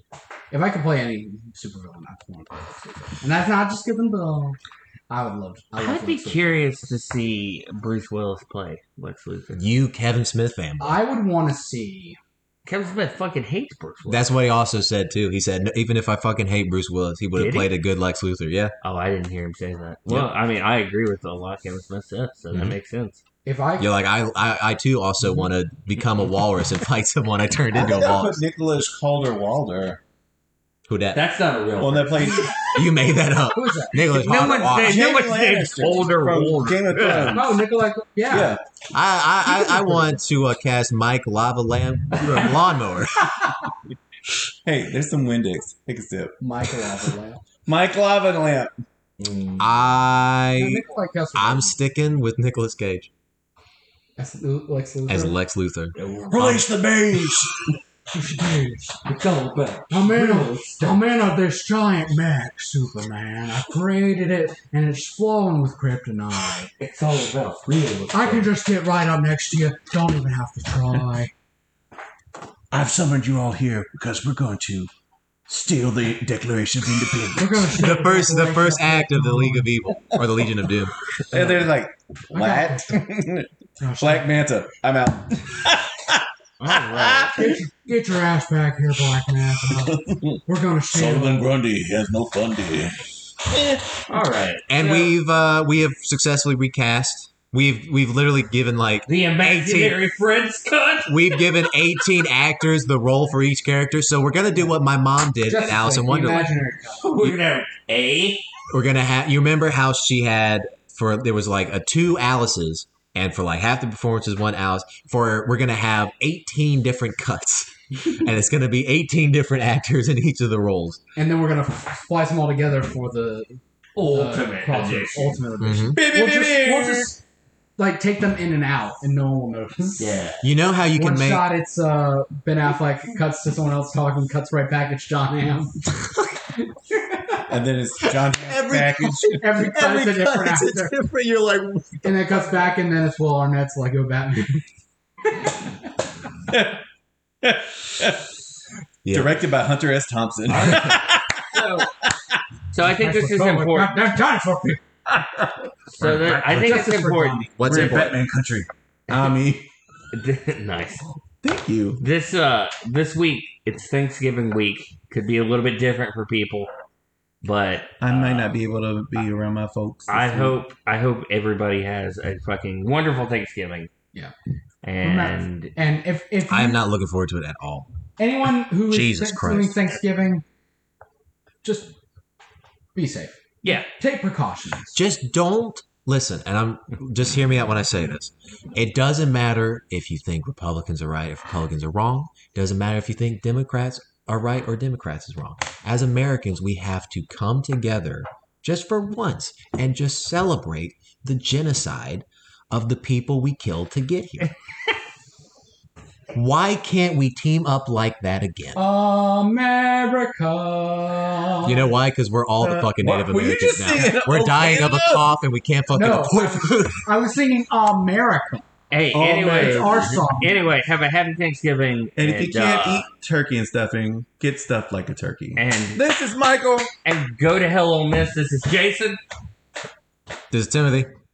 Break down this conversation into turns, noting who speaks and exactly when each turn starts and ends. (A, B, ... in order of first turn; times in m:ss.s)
0:00.5-0:04.6 A
0:05.1-0:06.6 A
0:05.8-0:09.6 B
0:09.5-0:11.0 C
0:10.8-0:12.2 A
0:12.7-0:14.3 B
0:14.1-0:18.7 C
0:17.4-0:17.7 B
0:18.8-0:23.2 B
0:20.1-0:20.3 C
0:23.4-0:23.9 A
0:23.8-0:28.4 C
0:27.7-0:30.0 D
0:30.9-0:31.2 C
0:31.1-0:32.7 B
0:31.8-0:32.6 D
0:32.7-0:35.1 C
0:33.5-0:34.0 A
0:34.1-0:37.6 B
0:34.7-0:37.6 D
0:37.3-0:38.5 A
0:38.3-0:38.6 D
0:38.9-0:43.3 C
0:39.7-0:40.0 A
0:42.2-0:42.5 B
0:44.6-0:46.4 D
0:46.4-0:47.4 A
0:47.6-0:48.7 D
0:49.2-0:49.7 B
0:49.6-0:53.1 C
0:50.6-0:51.8 A
0:54.2-0:55.4 A
0:55.1-0:56.7 C
0:56.0-0:56.6 B
0:56.3-0:57.8 D
0:58.2-0:58.8 A
0:58.9-1:01.0 B
0:59.9-1:06.7 A
1:06.8-1:08.5 B
1:08.1-1:11.3 A
1:12.7-1:14.9 D
1:15.5-1:17.8 D
1:17.4-1:19.7 A
1:17.8-1:21.0 C
1:21.3-1:26.2 D
1:22.3-1:23.0 A
1:23.8-1:24.3 A
1:26.6-1:27.4 B
1:26.8-1:27.6 D
1:27.4-1:31.5 A
1:29.6-1:30.4 D
1:30.9-1:34.0 D
1:34.1-1:35.1 B
1:34.7-1:40.0 C
1:39.1-1:41.8 B
1:41.1-1:46.5 C
1:45.5-1:47.1 A
1:47.0-1:48.4 B
1:48.7-2:01.0 C
2:01.2-2:07.2 A
2:04.0-2:05.4 B
2:05.6-2:06.0 C
2:05.9-2:07.1 D
2:07.8-2:10.2 A
2:10.0-2:10.4 B
2:10.4-2:11.5 C
2:10.9-2:15.9 A
2:16.9-2:17.4 A
2:17.5-2:19.4 D
2:18.4-2:22.4 C
2:19.3-2:20.9 A
2:22.0-2:24.6 A
2:26.5-2:26.8 D
2:27.4-2:28.3 D
2:29.0-2:29.4 C
2:29.0-2:32.3 D
2:30.5-2:31.9 B
2:30.6-2:30.9 C
2:32.7-2:34.0 B
2:32.8-2:34.8 A
2:35.1-2:36.9 D
2:35.9-2:38.0 B
2:36.4-2:37.9 A
2:37.6-2:38.2 C
2:37.6-2:39.7 D
2:40.1-2:41.1 B
2:41.4-2:42.0 D
2:42.0-2:46.7 B
2:47.4-2:48.6 B
2:48.0-2:50.6 D
2:50.1-2:53.9 B
2:54.8-2:55.7 B
2:55.0-2:56.8 A
2:56.5-2:57.9 C
2:58.2-3:00.4 A
2:58.9-2:59.8 C
3:01.6-3:01.9 A
3:03.0-3:05.0 A
3:04.9-3:24.5 C
3:26.3-3:28.8 C
3:28.8-3:31.9 A
3:31.6-3:37.1 C
3:32.6-3:35.2 D
3:35.9-3:38.7 A
3:38.9-3:43.1 B
3:39.1-3:40.3 D
3:39.3-3:40.6 A
3:42.2-3:46.9 D
3:45.6-3:46.0 B
3:47.0-3:49.2 B
3:50.5-3:51.1 C